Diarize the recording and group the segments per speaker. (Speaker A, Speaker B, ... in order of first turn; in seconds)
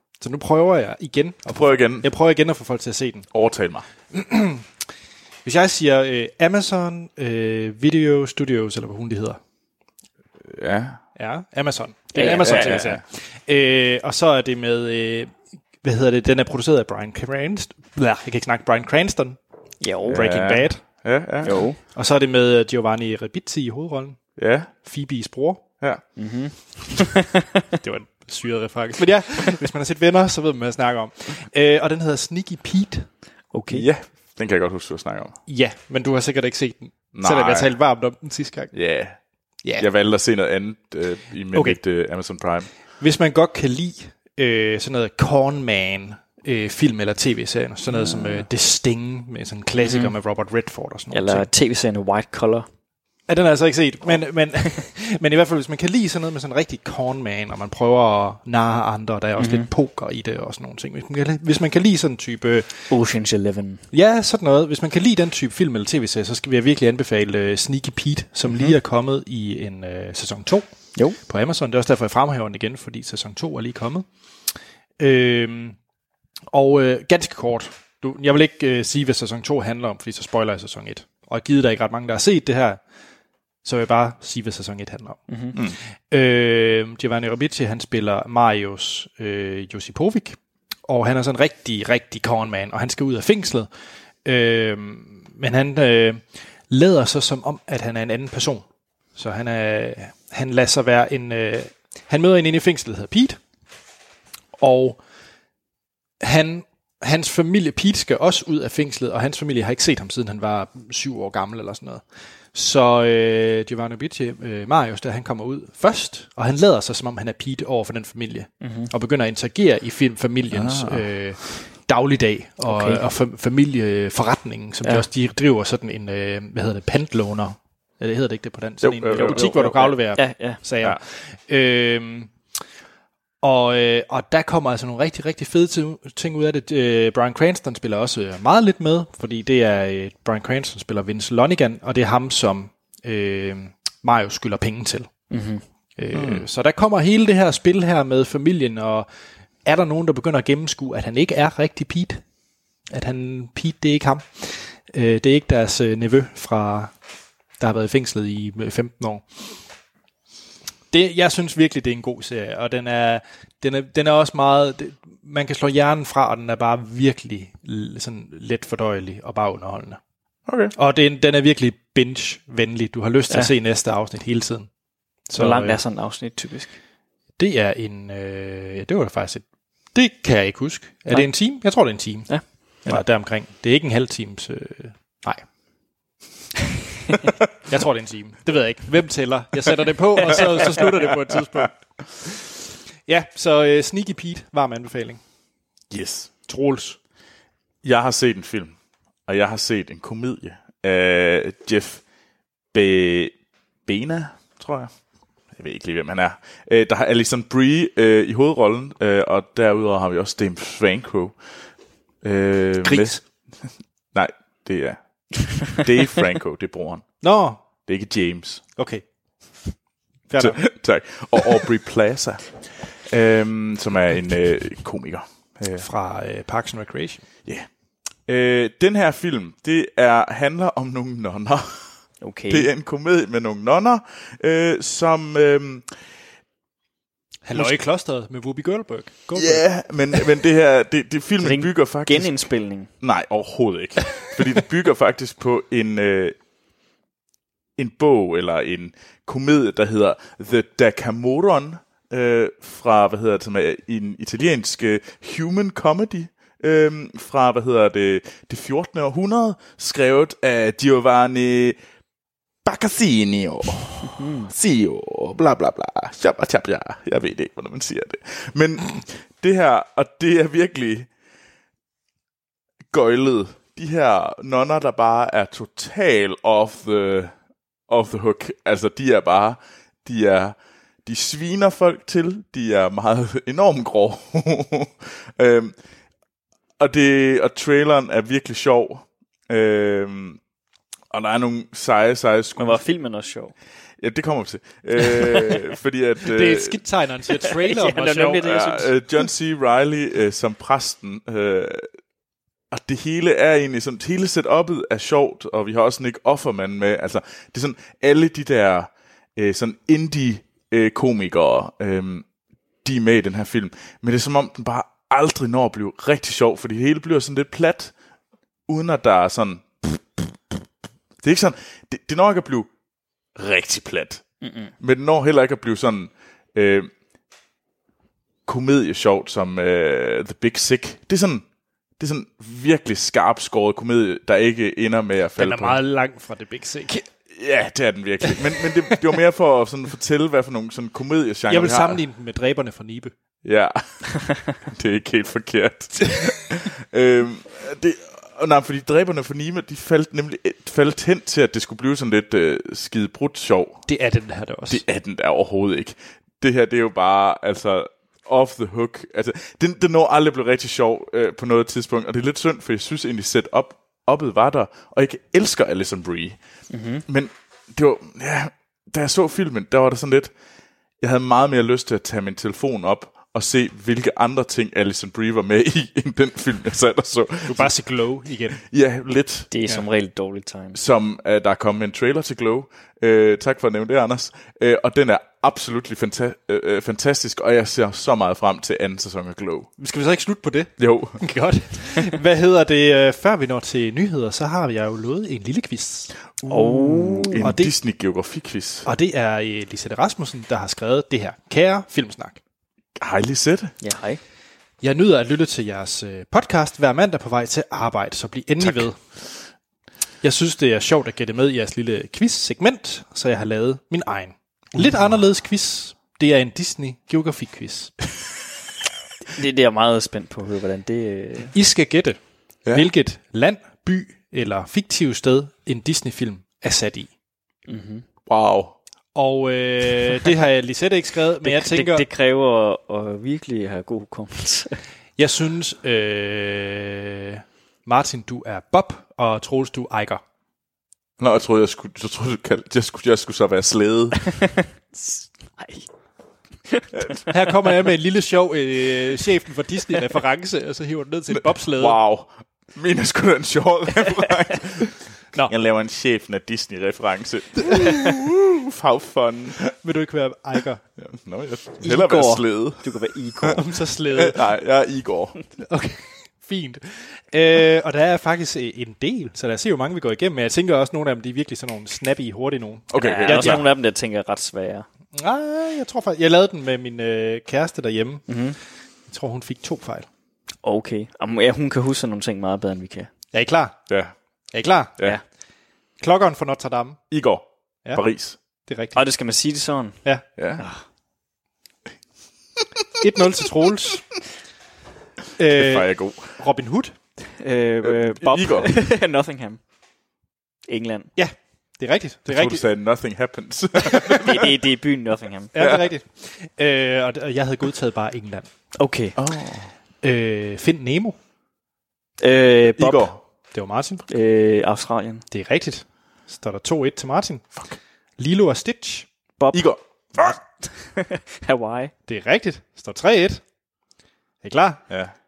Speaker A: 0.2-3.3, 4.1-4.7, 5.4-9.4, 11.2-19.4, 20.1-20.8, 21.9-24.2, 24.8-25.6, 27.8-33.1, 35.5-38.7, 41.5-41.8, 43.0-51.5, 53.3-62.9, 63.9-70.7, 71.2-74.0, 75.0-75.8, 76.5-82.8, 83.6-85.2, 86.1-93.7, 94.2-98.6, 99.2-103.4, 104.6-105.0, 106.2-112.0, 112.5-132.3, 133.4-145.1, 146.0-149.1, 149.6-152.2, 152.9-156.9, 157.6-159.2, 160.9-170.0, 170.8-174.7, 175.3-175.8, 177.4-185.4, 187.6-192.5, 193.1-195.2, 196.5-197.0, 212.8-213.2, 217.2-217.6, 218.8-219.0, 220.3-220.7, 225.8-227.2, 237.4-239.7, 296.2-298.6, 335.4-337.1, 341.5-343.1, 353.9-354.8, 377.5-378.6, 389.8-396.1, 397.4-397.7, 398.9-402.4, 404.8-409.0, 410.2-417.9, 421.5-422.2, 422.7-427.1, 429.1-432.0, 435.2-440.2, 447.3-452.0, 459.7-460.8, 463.5-464.4, 465.6-473.7, 475.1-478.3, 479.1-480.1, 483.3-483.8, 484.5-485.0, 486.0-487.0, 488.7-489.0, 493.0-494.1, 495.4-496.9, 501.1-502.6, 505.5-508.5, 510.0-511.1, 513.5-514.0, 515.3-517.5, 518.2-519.0, 522.1-523.4, 524.4-524.9
Speaker B: 1.5-2.1, 3.3-3.8, 10.4-11.0, 12.2-13.0, 20.1-21.6, 24.4-24.7, 33.7-35.4, 37.1-37.7, 38.7-39.2, 39.8-42.7, 120.5-121.0, 128.8-130.0, 146.1-146.4, 170.5-170.7, 195.9-196.3, 197.8-198.8, 199.3-202.0, 202.7-204.9, 205.5-211.3, 212.2-213.2, 214.1-217.1, 217.8-218.6, 220.4-225.8, 228.3-231.9, 232.5-235.9, 239.3-242.4, 243.0-246.3, 247.8-261.8, 262.6-271.1, 272.9-277.3, 277.9-285.8, 286.8-290.4, 291.1-292.8, 294.0-296.8, 298.4-301.9, 302.7-312.2, 312.8-317.9, 318.7-320.4, 321.2-322.7, 323.4-324.2, 324.8-326.9, 328.4-331.4, 332.0-335.8, 337.3-342.0, 343.4-353.8, 354.7-366.4, 367.1-370.3, 371.0-377.7, 378.6-379.5, 380.7-389.7, 390.8-391.2, 396.4-398.9, 403.0-403.7, 428.3-428.8, 441.2-444.2, 446.9-447.2, 451.3-459.7, 461.0-465.4, 472.9-473.6, 487.1-488.4, 490.4-490.6, 495.5-496.4, 497.8-498.7, 502.3-504.4, 505.5-505.9, 509.1-509.7, 512.7-513.2, 519.5-520.4
Speaker C: 12.1-12.8, 19.8-20.2, 21.4-21.8, 26.1-27.6, 33.5-33.9, 47.9-48.4, 49.8-50.1, 51.1-52.7, 59.4-59.7, 62.9-63.8, 68.5-68.7, 85.3-85.5, 118.6-118.9, 122.7-123.0, 130.1-130.6, 145.3-145.6, 175.3-176.8, 182.3-183.0, 232.2-232.7, 241.4-242.9, 264.1-264.5, 292.6-293.5, 297.4-298.9, 324.4-324.7, 366.7-367.0, 379.5-380.8, 396.5-397.5, 403.8-404.2, 419.3-421.5, 427.7-428.0, 431.4-434.8, 444.3-445.9, 461.8-463.6, 473.0-474.9, 478.3-478.6, 480.6-483.1, 488.9-490.0, 490.6-490.8, 497.4-499.6, 500.7-501.1, 503.9-505.5, 508.8-509.2, 512.2-513.1, 514.1-515.2, 519.4-519.6, 520.2-521.9